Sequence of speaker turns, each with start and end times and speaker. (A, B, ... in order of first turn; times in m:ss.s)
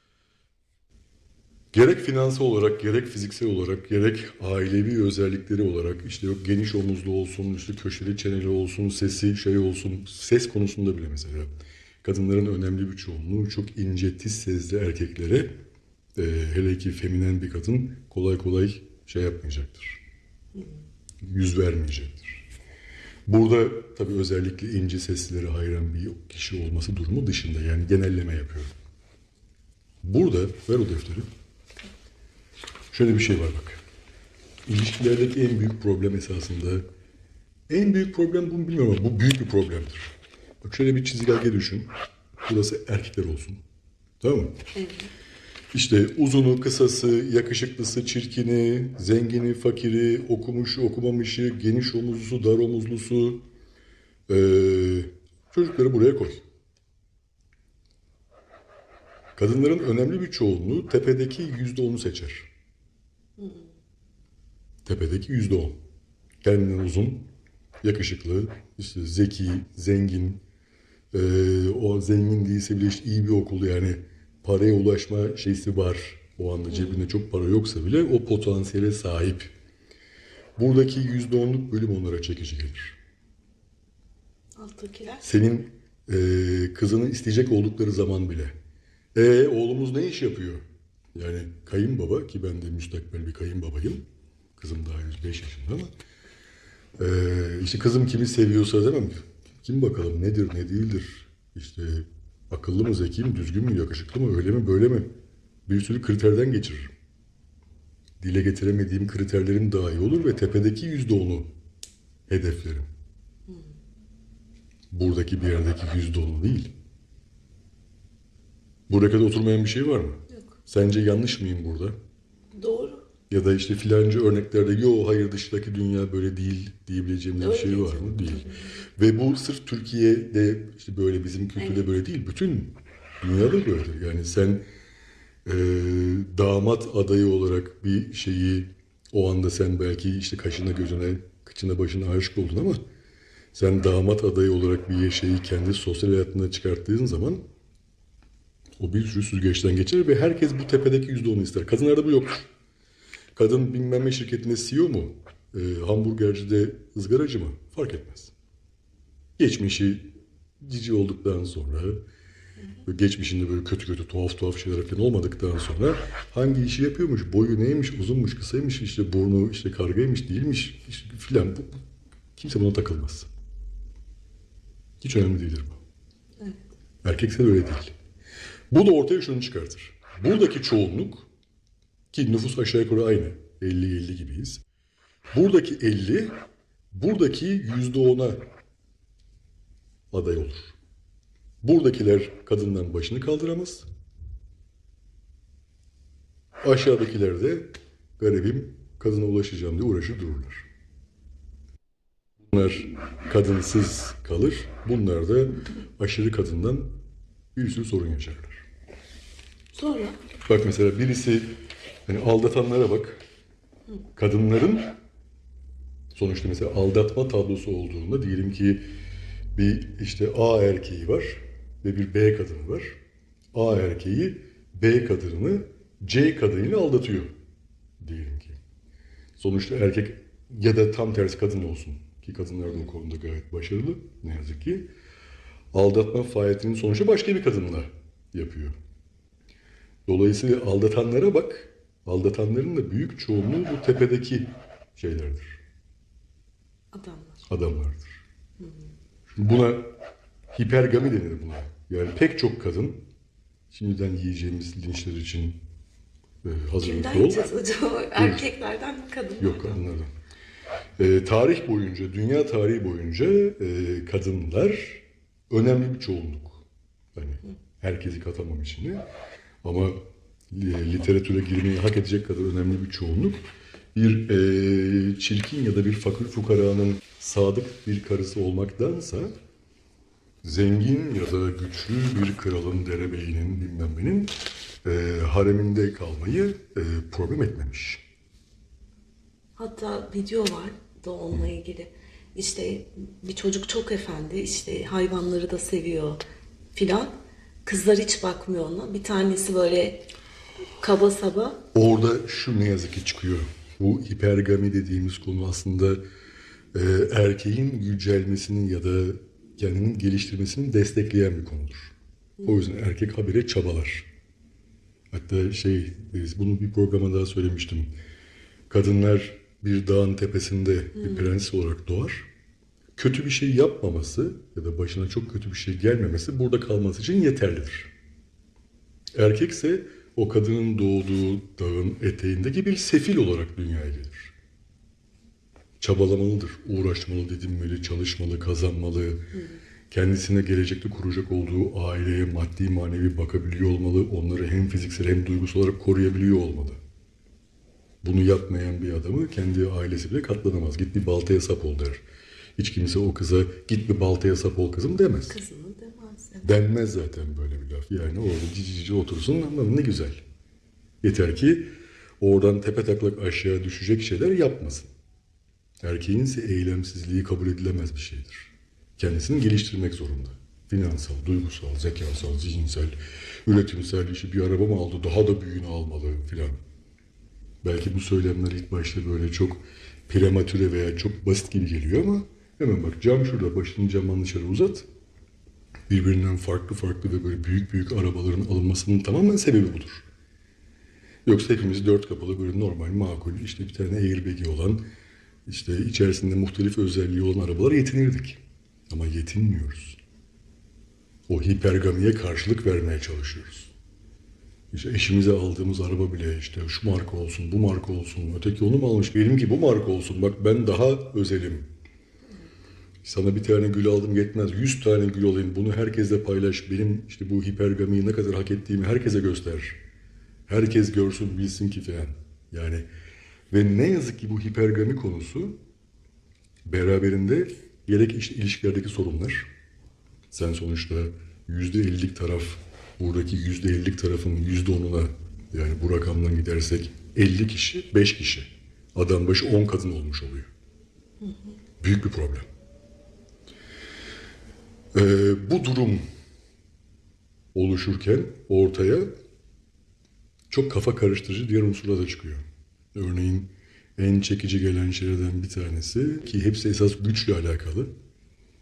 0:01.7-0:11.5 A
0:12.0-0:15.6 A
0:16.2-0:20.0 A
0:21.2-0:22.4 A
0:23.3-0:28.7 A
0:30.0-0:31.3 A
0:32.9-0:33.8 A
0:34.6-0:36.8 A
0:37.7-0:40.1 A
0:40.6-0:41.9 A
0:42.4-0:43.6 A
0:44.2-0:44.6 A
0:44.7-0:45.1 B
0:45.7-0:53.4 A
0:54.3-0:56.4 A
0:59.4-1:02.5 A
1:03.4-1:03.7 B
1:04.8-1:05.8 A
1:06.4-1:07.3 A
1:07.8-1:10.4 A
1:11.1-1:19.5 A
1:20.6-1:23.0 A
1:24.6-1:25.2 B
1:25.2-1:28.5 A
1:29.1-1:30.6 A
1:31.1-1:34.0 A
1:34.6-1:35.9 A
1:37.0-1:45.1 A
1:45.7-1:46.9 A
1:48.2-1:51.5 A
1:52.3-1:52.9 A
1:54.9-1:56.7 A
1:58.9-2:02.0 A
2:00.3-2:00.6 B
2:02.5-2:03.0 B
2:03.3-2:14.6 A
2:07.4-2:08.8 B
2:15.4-2:22.8 A
2:23.5-2:27.4 A
2:28.8-2:32.5 A
2:33.3-2:38.3 A
2:39.4-2:42.0 A
2:42.8-2:51.8 A
2:52.4-2:53.3 A
2:55.0-2:55.8 A
2:57.0-2:57.9 A
2:58.7-3:01.3 A
3:02.1-3:04.6 A
3:05.3-3:06.3 A
3:06.9-3:08.4 A
3:10.1-3:10.8 A
3:11.6-3:13.8 A
3:16.6-3:20.6 A
3:22.5-3:27.0 A
3:27.5-3:28.6 A
3:29.7-3:30.2 B
3:30.4-3:31.5 A
3:32.0-3:33.2 A
3:34.2-3:34.9 A
3:36.1-3:38.8 A
3:39.6-3:43.0 A
3:43.5-3:47.3 A
3:48.0-3:48.6 A
3:49.4-3:54.9 A
3:55.7-3:58.7 A
4:00.1-4:05.6 A
4:06.9-4:07.4 B
4:07.5-4:08.2 A
4:08.6-4:08.9 B
4:09.3-4:10.0 A
4:10.5-4:13.1 A
4:13.7-4:15.6 A
4:16.4-4:17.4 A
4:16.8-4:19.8 B
4:18.2-4:18.4 A
4:19.4-4:20.1 A
4:21.0-4:26.6 A
4:27.1-4:29.0 A
4:29.6-4:33.4 A
4:33.9-4:39.3 A
4:40.4-4:44.3 A
4:44.8-4:48.0 A
4:49.6-4:56.2 B
4:56.7-5:00.1 B
5:00.8-5:01.6 B
5:01.7-5:06.0 A
5:06.7-5:14.1 A
5:15.1-5:17.9 A
5:18.7-5:22.3 A
5:21.0-5:21.3 B
5:23.0-5:27.9 A
5:29.1-5:34.3 A
5:35.8-5:39.3 A
5:39.3-5:39.6 B
5:39.9-5:46.8 A
5:48.0-5:52.0 A
5:52.6-5:55.4 A
5:55.3-5:56.5 B
5:56.4-6:00.2 A
6:01.0-6:01.7 A
6:02.2-6:04.9 A
6:05.8-6:12.9 A
6:13.4-6:16.6 A
6:17.6-6:24.8 A
6:25.9-6:30.0 A
6:31.2-6:34.8 A
6:35.5-6:40.0 A
6:41.3-6:43.7 A
6:44.7-6:51.6 A
6:53.0-6:59.8 A
7:00.5-7:02.8 A
7:03.5-7:05.6 A
7:06.6-7:09.5 A
7:10.3-7:20.5 A
7:21.2-7:21.6 B
7:21.8-7:22.4 A
7:24.9-7:26.0 A
7:27.5-7:29.1 A
7:30.5-7:37.9 A